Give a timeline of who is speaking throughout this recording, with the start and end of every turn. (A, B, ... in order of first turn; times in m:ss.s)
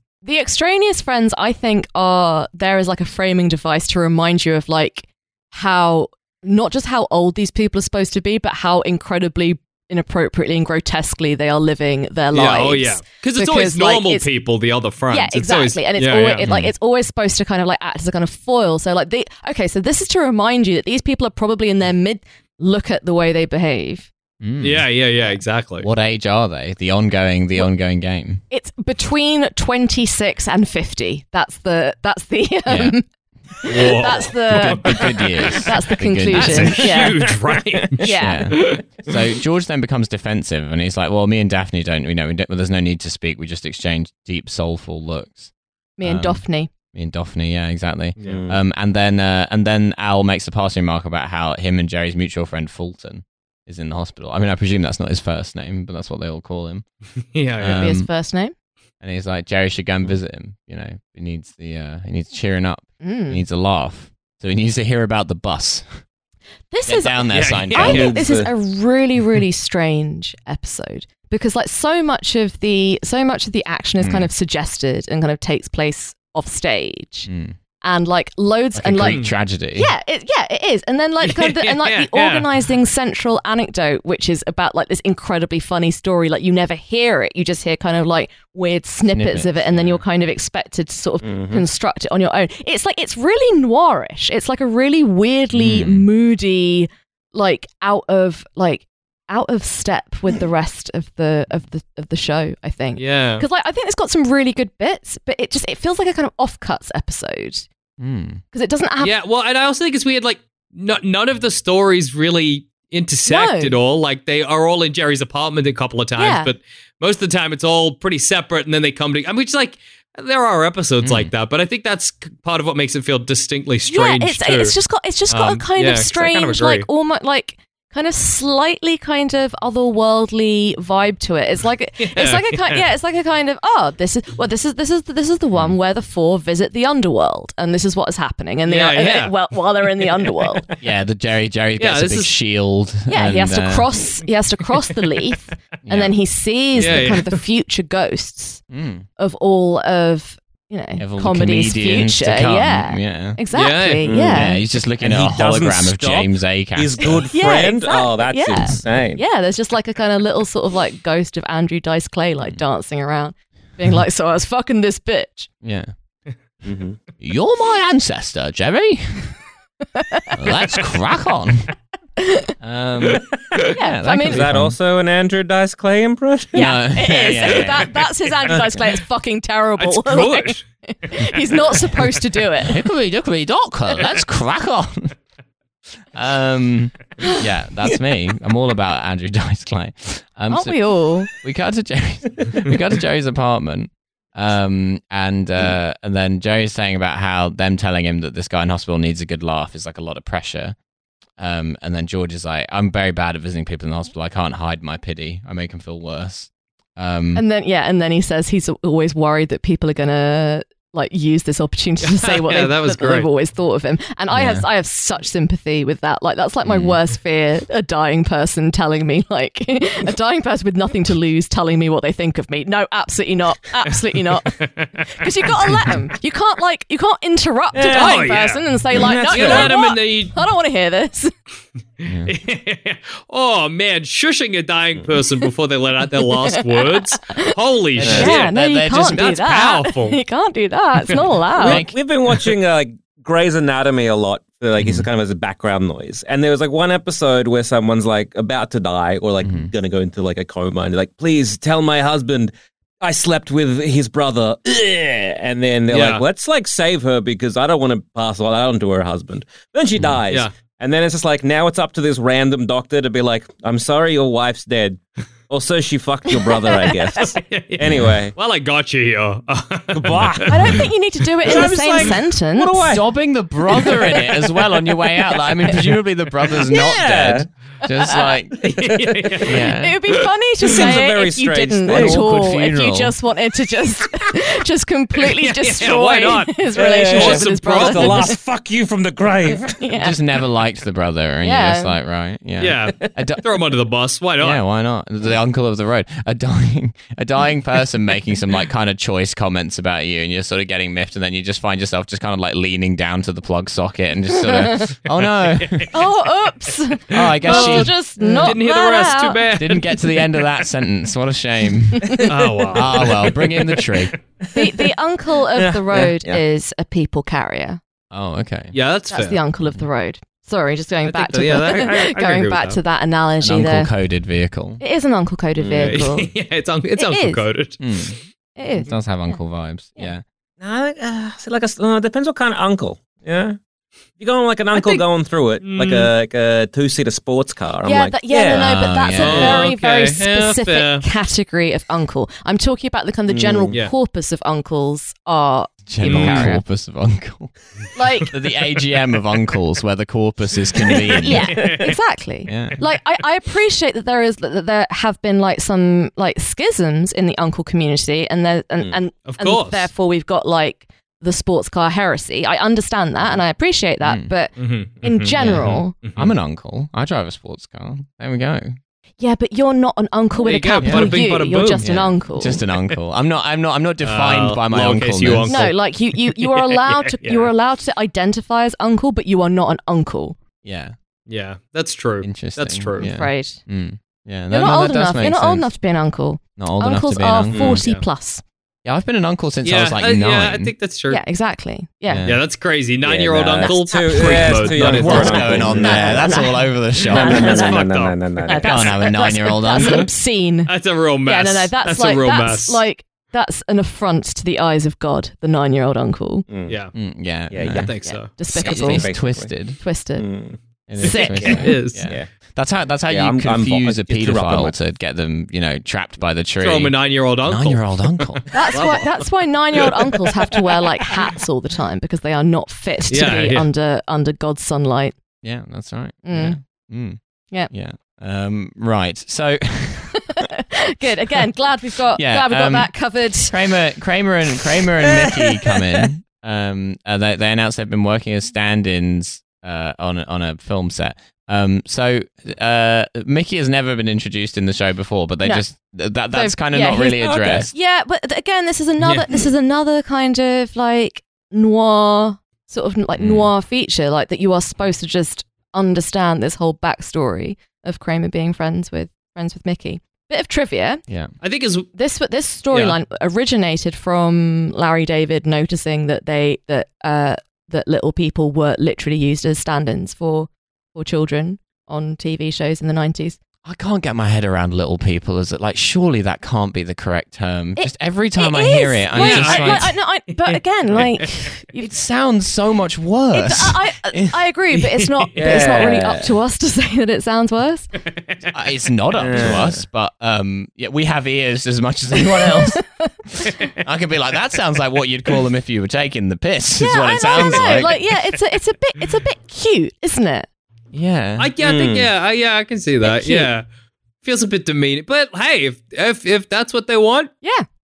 0:00.2-0:14.3 A
0:12.3-0:16.5 B
0:15.1-0:24.1 A
0:16.4-0:16.7 C
0:24.4-0:24.9 C
0:24.6-0:25.9 B
0:25.8-0:28.4 C
0:28.5-0:33.0 A
0:32.7-0:33.0 C
0:33.6-0:37.2 A
0:33.6-0:39.2 B
0:34.4-0:36.9 C
0:38.0-0:38.5 A
0:38.1-0:45.5 C
0:46.0-0:46.7 A
0:46.0-0:56.8 C
0:48.2-0:48.4 B
0:48.2-0:48.6 D
0:57.3-0:57.8 B
0:57.6-0:58.1 C
0:57.8-0:58.5 A
0:59.0-1:05.9 C
1:03.0-1:03.4 A
1:06.7-1:17.3 A
1:06.8-1:08.2 C
1:07.3-1:08.1 B
1:07.8-1:08.5 D
1:14.0-1:14.3 C
1:17.3-1:17.6 C
1:17.8-1:19.2 A
1:18.7-1:19.9 C
1:19.0-1:19.3 B
1:19.7-1:47.7 A
1:21.2-1:22.6 B
1:29.1-1:30.0 C
1:31.2-1:31.6 D
1:35.5-1:36.1 C
1:43.0-1:43.4 B
1:48.0-1:48.4 C
1:48.5-1:49.2 A
1:49.0-2:04.8 B
1:53.3-1:53.8 A
1:56.2-1:56.5 A
2:01.0-2:01.3 C
2:03.9-2:20.7 A
2:05.3-2:06.9 B
2:12.0-2:12.8 B
2:18.6-2:19.3 B
2:20.8-2:23.9 C
2:21.8-2:22.3 B
2:23.1-2:28.6 A
2:25.8-2:26.1 C
2:26.8-2:27.4 B
2:28.7-2:29.1 C
2:29.2-2:34.6 A
2:31.0-2:33.4 C
2:33.5-2:34.1 B
2:34.0-2:39.2 D
2:34.1-2:37.2 C
2:37.2-2:45.5 A
2:45.6-2:45.9 C
2:46.6-2:47.0 D
2:47.2-2:49.4 C
2:49.9-2:50.4 A
2:50.3-2:51.7 C
2:52.2-2:52.5 A
2:52.6-2:54.8 C
2:53.7-2:54.4 A
2:54.2-2:56.7 D
2:56.5-3:02.8 A
2:56.5-2:57.9 C
2:59.8-3:00.6 B
3:01.2-3:02.0 B
3:02.6-3:05.1 C
3:06.1-3:20.8 C
3:10.5-3:11.3 A
3:21.4-3:27.4 C
3:27.3-3:51.3 A
3:32.0-3:33.3 B
3:34.3-3:34.6 C
3:36.6-3:37.0 C
3:44.4-3:46.0 B
3:47.7-3:48.2 D
3:47.8-3:50.4 B
3:48.9-3:49.8 D
3:52.0-4:00.2 B
3:52.0-3:52.3 C
3:56.3-4:01.8 A
3:58.0-3:59.3 C
3:58.0-3:58.3 D
4:01.6-4:02.0 C
4:01.6-4:28.3 D
4:04.8-4:05.1 C
4:09.4-4:09.7 C
4:15.9-4:16.2 B
4:26.6-4:27.2 A
4:27.2-4:30.8 B
4:27.8-4:28.1 C
4:29.9-4:30.8 D
4:30.5-4:33.0 A
4:31.4-4:33.0 D
4:32.9-4:38.8 C
4:33.9-4:34.2 A
4:36.6-4:37.5 D
4:38.0-4:38.4 A
4:38.6-4:40.2 B
4:38.8-4:39.4 D
4:39.4-4:40.0 C
4:39.6-4:48.4 A
4:40.6-4:42.2 D
4:41.9-4:43.1 C
4:45.2-4:48.3 B
4:46.7-4:49.8 D
4:49.7-4:50.2 A
4:50.0-4:53.4 C
4:51.4-4:51.9 A
4:52.6-4:54.6 B
4:54.4-5:06.0 C
5:04.4-5:04.8 A
5:05.2-5:05.9 B
5:05.9-5:09.4 A
5:07.1-5:07.9 C
5:07.4-5:10.3 B
5:08.2-5:08.5 D
5:09.6-5:14.1 C
5:12.0-5:12.3 A
5:12.2-5:14.2 B
5:14.5-5:17.8 A
5:15.6-5:16.4 D
5:18.1-5:18.7 C
5:18.7-5:19.4 B
5:19.1-5:23.9 A
5:21.0-5:22.8 B
5:23.4-5:24.8 C
5:24.8-5:26.3 A
5:25.6-5:26.0 D
5:25.8-5:27.8 B
5:27.0-5:27.4 A
5:27.8-5:28.2 C
5:28.6-5:29.4 A
5:28.8-5:30.2 C
5:30.6-5:33.6 D
5:34.2-5:38.8 D
5:34.7-5:35.0 A
5:35.6-5:36.1 B
5:37.8-5:46.6 A
5:38.4-5:39.7 C
5:39.2-5:41.0 B
5:43.3-5:43.8 D
5:45.9-5:47.6 C
5:46.0-5:46.5 B
5:47.9-5:48.3 A
5:48.3-5:51.7 C
5:51.1-6:05.9 A
5:51.5-5:51.8 B
5:52.4-5:52.8 C
5:59.2-5:59.9 B
6:04.0-6:04.3 C
6:04.6-6:06.3 B
6:05.4-6:08.8 C
6:09.2-6:12.6 A
6:10.4-6:11.9 B
6:10.8-6:11.2 C
6:11.8-6:15.7 C
6:14.0-6:17.5 B
6:15.4-6:20.4 A
6:20.6-6:20.9 C
6:21.3-6:23.1 B
6:22.2-6:25.7 C
6:23.0-6:23.6 A
6:24.5-6:28.4 A
6:26.6-6:27.8 C
6:27.5-6:27.8 D
6:28.8-6:30.7 C
6:29.6-6:31.2 B
6:31.1-6:32.3 A
6:32.1-6:32.4 C
6:32.2-6:35.8 B
6:33.0-6:36.4 D
6:33.6-6:37.9 A
6:34.7-6:37.6 C
6:37.1-6:38.8 D
6:37.2-6:38.2 B
6:38.4-6:40.7 A
6:38.6-6:40.1 C
6:40.7-6:42.8 B
6:41.2-6:46.4 A
6:46.5-6:46.8 D
6:46.7-6:46.9 B
6:46.9-6:47.9 C
6:47.5-6:47.9 D
6:47.6-6:48.3 B
6:48.0-6:49.1 A
6:48.5-6:49.5 D
6:48.5-6:49.8 C
6:49.8-6:50.3 A
6:50.2-6:52.3 D
6:50.9-6:58.4 C
6:51.0-6:51.8 A
6:51.0-6:52.1 B
6:53.1-6:54.8 D
6:56.6-6:59.9 B
6:58.5-7:05.2 A
7:03.1-7:03.7 B
7:05.4-7:10.4 C
7:06.2-7:06.6 A
7:10.3-7:13.6 A
7:12.2-7:12.9 C
7:13.5-7:27.7 C
7:15.1-7:16.0 D
7:26.3-7:41.0 A
7:27.2-7:27.7 D
7:29.0-7:29.4 B
7:33.2-7:33.5 C
7:41.4-7:41.9 B
7:41.9-7:53.4 A
7:42.7-7:43.0 B
7:53.6-7:59.9 C
7:57.8-8:01.9 A
7:59.1-8:01.1 B
8:01.8-8:04.4 C
8:03.3-8:07.9 A
8:04.7-8:05.6 B
8:05.3-8:06.3 D
8:08.5-8:17.9 C
8:09.2-8:09.8 D
8:12.4-8:13.1 A
8:16.8-8:20.5 A
8:17.4-8:17.9 B
8:20.9-8:21.5 C
8:21.4-8:23.6 B
8:21.6-8:22.1 D
8:23.0-8:23.5 A
8:24.2-8:27.3 B